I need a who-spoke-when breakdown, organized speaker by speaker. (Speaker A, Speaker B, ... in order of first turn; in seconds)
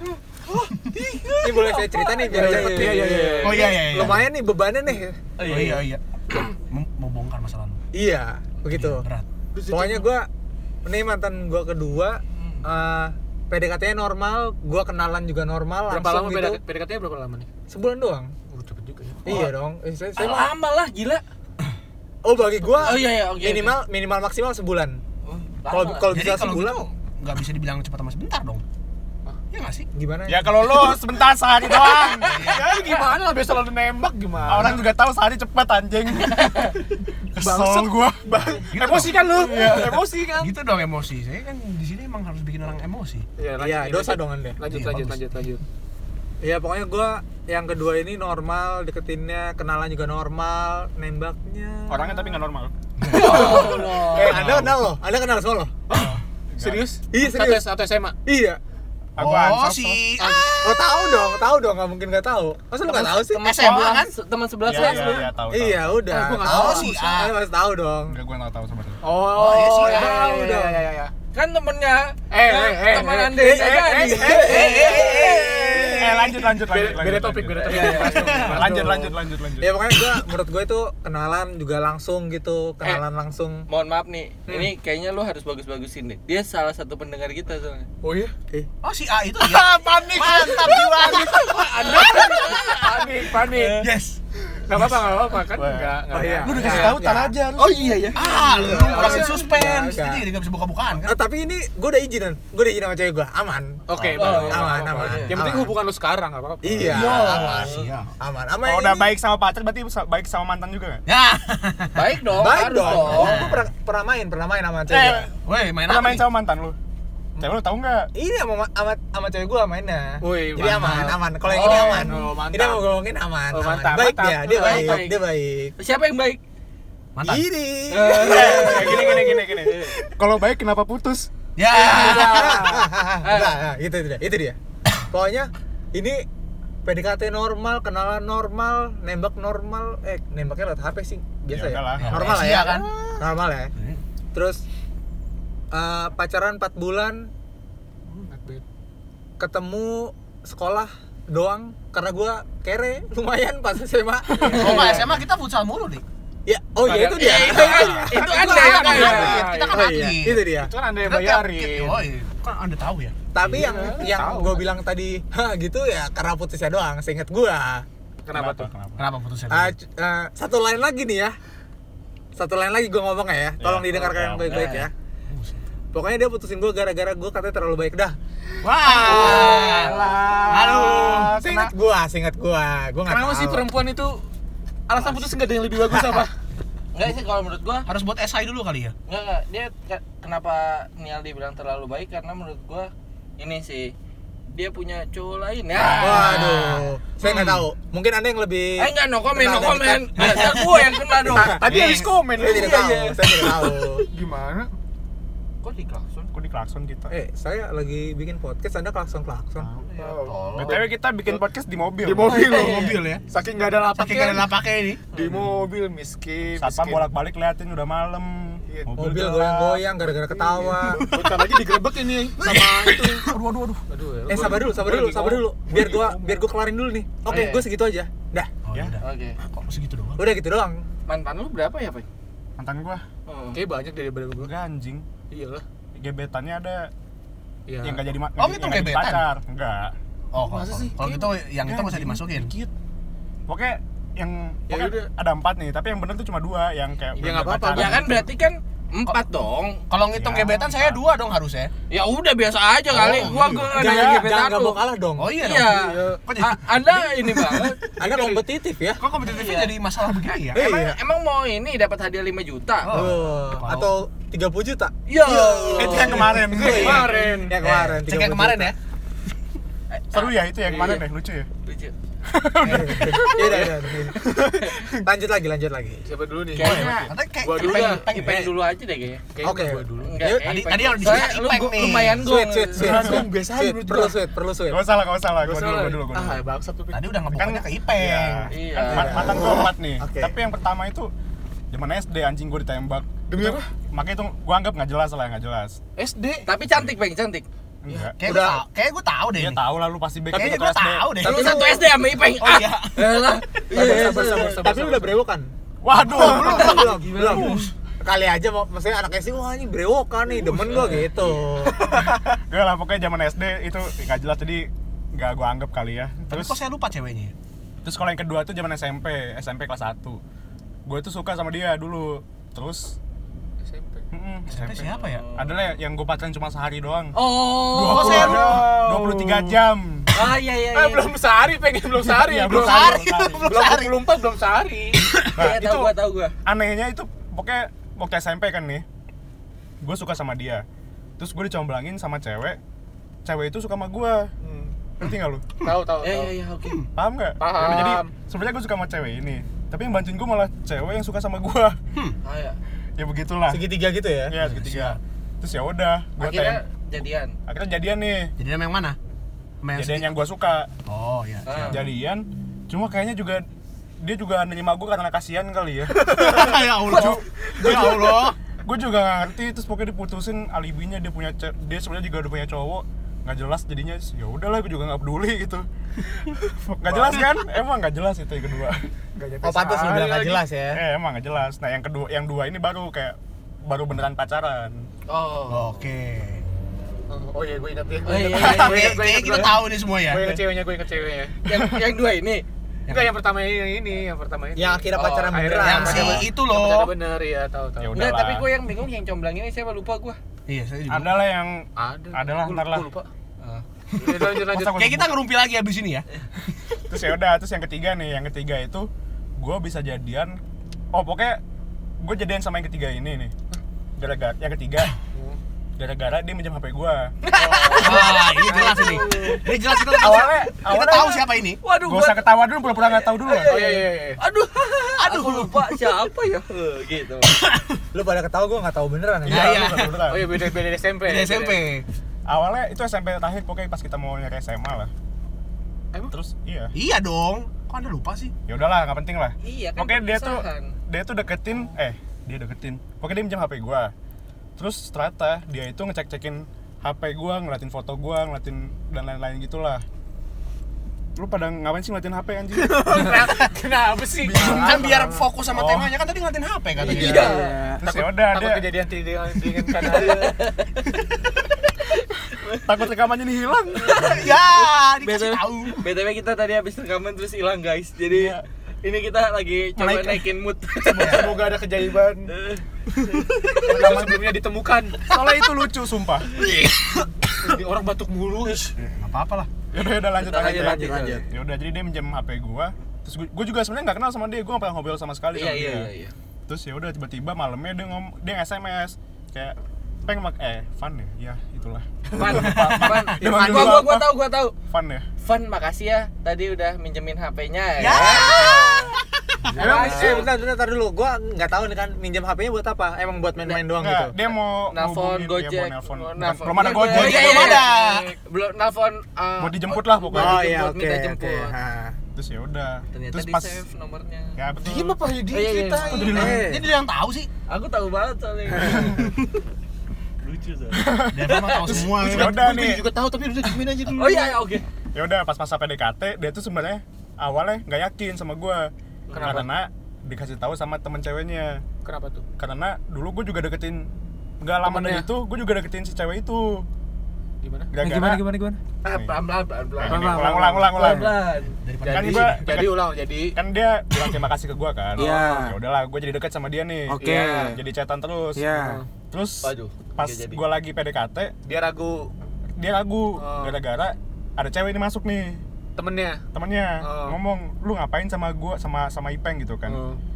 Speaker A: 0.6-1.8, 3.4-4.3, 5.4-7.8, 8.7-9.2, 26.1-28.6, 29.5-29.9, 32.3-32.7, 38.7-43.3, 44.7-45.2, 53.0-54.8, 59.2-61.4, 63.4-64.1, 66.4-67.4, 69.3-70.3, 74.1-76.6, 78.1-78.7, 88.8-94.2, 94.7-95.3, 96.4-97.0, 98.1-101.2, 106.8-108.1, 111.1-112.2, 112.8-113.7, 114.9-116.3, 120.6-121.2, 127.2-127.5, 131.6-132.7, 142.0-143.0, 143.8-144.0, 154.4-156.0, 157.6-160.5, 161.0-163.2, 169.0-169.8, 175.3-175.6, 178.6-181.4, 187.9-188.9, 195.8-197.7, 200.2-200.8, 201.6-202.2, 212.3-213.2, 213.9-215.0, 221.0-221.5, 222.4-223.8, 228.7-230.3, 238.4-239.3, 240.3-242.5, 249.9-251.7, 252.9-253.8, 255.2-257.7, 259.0-260.7, 262.8-263.9, 265.2-266.8, 267.6-268.8, 272.7-273.2, 276.6-278.6, 280.4-282.3, 286.9-288.5, 298.2-299.6, 300.3-303.4, 306.1-307.7, 316.3-317.3, 324.5-325.2, 327.9-328.7, 332.3-334.1, 335.0-335.4, 354.4-355.0, 358.4-359.0, 359.6-360.1, 360.9-361.8, 365.9-368.4, 385.5-386.4, 388.3-390.4, 395.6-396.9, 400.5-401.2, 404.1-406.1, 417.7-421.6, 425.0-425.9, 427.3-427.8, 429.3-431.9, 436.8-438.3, 454.4-457.4, 464.0-465.9, 469.8-470.2, 473.1-473.9, 476.4-477.1, 478.8-479.5, 492.3-493.1, 497.8-499.6, 506.7-508.1, 516.1-517.3, 521.1-522.5, 541.6-542.6
Speaker B: 1.0-1.6, 2.2-4.1, 9.6-10.1, 15.9-17.5, 18.5-19.5, 32.2-34.9, 37.4-40.5, 43.4-45.6, 55.9-58.2, 60.2-60.5, 66.1-66.9, 69.0-71.1, 72.3-75.0, 76.6-79.2, 88.0-88.4, 89.4-93.9, 94.7-97.0, 97.7-99.5, 103.9-107.0, 120.2-123.0, 123.5-125.1, 148.1-148.6, 154.5-154.9, 157.9-159.5, 160.5-162.1, 163.4-164.7, 168.2-168.7, 179.1-181.7, 183.1-184.2, 184.9-186.3, 201.3-204.7, 209.9-210.8, 212.0-214.5, 215.1-217.1, 218.7-219.8, 220.3-223.3, 223.9-226.4, 227.3-227.7, 233.5-234.5, 235.3-235.6, 237.7-238.0, 240.4-241.3, 244.7-245.1, 247.2-248.2, 255.9-256.2, 266.5-267.6, 270.7-271.0, 273.5-273.7, 276.1-278.0, 279.3-280.3, 282.8-284.2, 285.4-287.1, 293.3-293.7, 296.0-296.5, 303.7-305.2, 323.6-324.1, 328.0-328.8, 330.7-335.1, 344.4-344.8, 345.6-346.4, 347.4-348.1, 376.8-377.2, 379.2-380.4, 387.1-391.3, 392.9-397.9, 401.8-403.1, 404.0-404.9, 415.1-415.4, 417.4-419.4, 423.4-424.2, 430.0-431.7, 452.7-454.6, 456.8-460.4, 470.9-472.3, 473.6-475.0, 477.4-478.8, 499.6-500.3, 514.6-516.5, 521.7-524.4, 529.1-529.5, 531.8-532.2, 534.6-535.1, 537.4-537.7, 541.8-543.4, 547.0-547.5, 548.5-548.9, 551.5-552.1, 553.2-553.6, 555.8-556.2, 556.8-557.2, 559.7-560.0
Speaker C: 1.4-5.2, 7.9-9.1, 9.7-10.3, 10.8-16.6, 17.7-18.3, 19.2-20.5, 22.2-25.0, 25.7-26.8, 29.9-31.0, 43.6-44.6, 46.4-52.4, 53.1-55.8, 57.1-57.7, 58.2-58.6, 60.5-63.4, 64.7-68.2, 69.8-70.8, 73.4-75.8, 79.6-83.7, 96.1-97.4, 98.5-100.2, 101.0-105.8, 106.6-109.1, 112.3-115.3, 118.1-125.8, 127.2-129.4, 131.8-134.6, 135.1-136.2, 136.8-143.7, 144.3-144.6, 145.7-147.3, 149.4-155.2, 156.5-158.5, 159.0-160.7, 163.3-167.9, 169.5-171.4, 172.4-174.9, 175.9-178.2, 178.8-183.7, 185.9-186.2, 195.9-200.6, 201.3-201.6, 202.3-204.1, 207.1-209.7, 219.0-221.1, 224.3-228.5, 230.2-230.8, 253.7-255.3, 258.0-259.0, 260.5-261.0, 262.9-268.7, 272.6-276.0, 279.4-281.4, 282.2-284.8, 288.9-290.3, 298.2-298.6, 301.2-301.9, 303.7-305.5, 306.1-312.1, 353.5-354.4, 379.4-380.8, 394.6-396.3, 427.9-429.8, 454.4-455.2, 456.9-457.8, 480.4-481.2, 493.2-493.9, 497.8-498.4, 499.6-504.2, 510.1-512.0, 516.1-516.7, 537.8-538.6, 539.9-541.1, 545.0-545.6, 546.9-547.6, 548.4-548.8
Speaker D: 2.3-3.5, 5.4-5.8, 12.3-12.7, 20.2-21.2, 22.8-23.8, 25.2-26.1, 36.4-36.7, 53.1-54.4, 62.8-65.3, 71.3-75.9, 77.6-78.6, 83.7-87.9, 92.0-92.8, 97.6-98.2, 104.1-105.4, 107.3-107.9, 111.9-113.5, 121.5-122.2, 124.5-125.2, 125.8-126.4, 127.9-130.0, 131.7-133.6, 156.8-159.8, 174.4-174.9, 179.1-180.2, 186.9-187.9, 189.1-193.9, 194.5-196.7, 198.8-201.7, 202.4-203.3, 205.6-206.3, 209.9-210.8, 212.3-213.0, 229.0-229.4, 231.1-232.1, 233.3-233.6, 247.7-249.8, 251.9-254.8, 255.4-257.8, 259.2-259.7, 260.5-263.0, 265.1-267.4, 269.9-271.0, 271.6-271.9, 274.5-274.8, 276.5-279.3, 280.0-283.2, 288.5-289.4, 296.5-297.4, 301.2-304.9, 306.2-307.6, 310.7-311.4, 324.8-325.6, 327.1-328.6, 330.1-331.1, 335.4-336.4, 346.0-346.8, 352.2-352.6, 356.2-357.4, 361.5-361.8, 385.1-385.8, 388.0-389.2, 391.5-392.5, 394.9-395.4, 397.9-400.2, 417.2-419.5, 421.6-427.4, 439.4-440.8, 456.8-457.6, 459.9-460.9, 462.3-462.6, 463.8-471.4, 472.3-472.6, 480.1-481.2, 485.3-486.1, 492.1-494.6, 495.2-498.9, 499.6-500.3, 504.7-511.6, 512.9-514.4, 515.3-516.4, 517.5-519.1, 520.2-521.8, 523.9-524.6, 529.1-529.4, 538.8-541.6, 545.0-545.2, 547.1-547.5, 549.4-550.4
Speaker E: 30.3-32.4, 34.5-36.7, 37.4-40.0, 51.9-52.7, 54.4-54.7, 55.9-56.9, 59.2-60.1, 64.7-66.0, 68.1-69.0, 76.0-79.8, 95.5-96.0, 96.6-98.0, 104.1-104.5, 106.9-107.7, 108.6-111.0, 115.8-116.8, 117.4-118.1, 128.2-131.3, 141.5-142.4, 168.3-169.1, 173.6-174.7, 206.3-207.1, 210.6-212.5, 216.6-219.8, 232.6-233.0, 234.4-235.1, 235.9-236.9, 237.8-239.9, 241.7-242.7, 243.5-248.1, 250.1-251.0, 253.7-254.3, 265.8-267.1, 270.1-271.5, 272.3-273.7, 282.8-283.3, 284.7-286.4, 287.3-291.1, 291.7-295.8, 297.8-298.2, 299.4-301.2, 305.8-306.9, 312.5-316.6, 317.8-320.2, 320.9-323.0, 324.1-330.1, 332.0-333.6, 335.4-335.9, 336.4-338.9, 339.8-340.6, 341.2-342.6, 343.2-344.3, 345.0-345.5, 346.9-351.8, 353.0-353.6, 354.2-356.6, 357.5-358.3, 359.8-360.7, 361.7-363.5, 364.0-375.7, 376.7-378.9, 380.7-384.9, 397.8-398.5, 400.9-402.9, 404.4-405.1, 406.9-410.4, 410.9-411.4, 412.0-413.3, 414.0-414.9, 415.8-417.1, 420.0-421.3, 421.8-423.6, 429.3-430.3, 432.3-434.9, 436.1-436.7, 438.5-443.9, 444.6-449.8, 451.2-453.1, 454.2-454.9, 455.5-455.9, 457.8-458.7, 462.6-464.1, 468.1-468.4, 473.7-474.2, 475.1-476.3, 479.7-485.9, 486.5-494.1, 494.7-495.1, 503.8-507.6, 509.4-510.5, 512.1-513.6, 514.4-515.0, 515.9-516.4, 520.7-522.8, 524.9-531.6, 532.4-533.9, 534.4-536.7, 537.7-538.2, 538.9-539.2, 539.8-541.2, 541.9-548.5, 549.1-551.3, 552.6-555.4, 556.3-559.8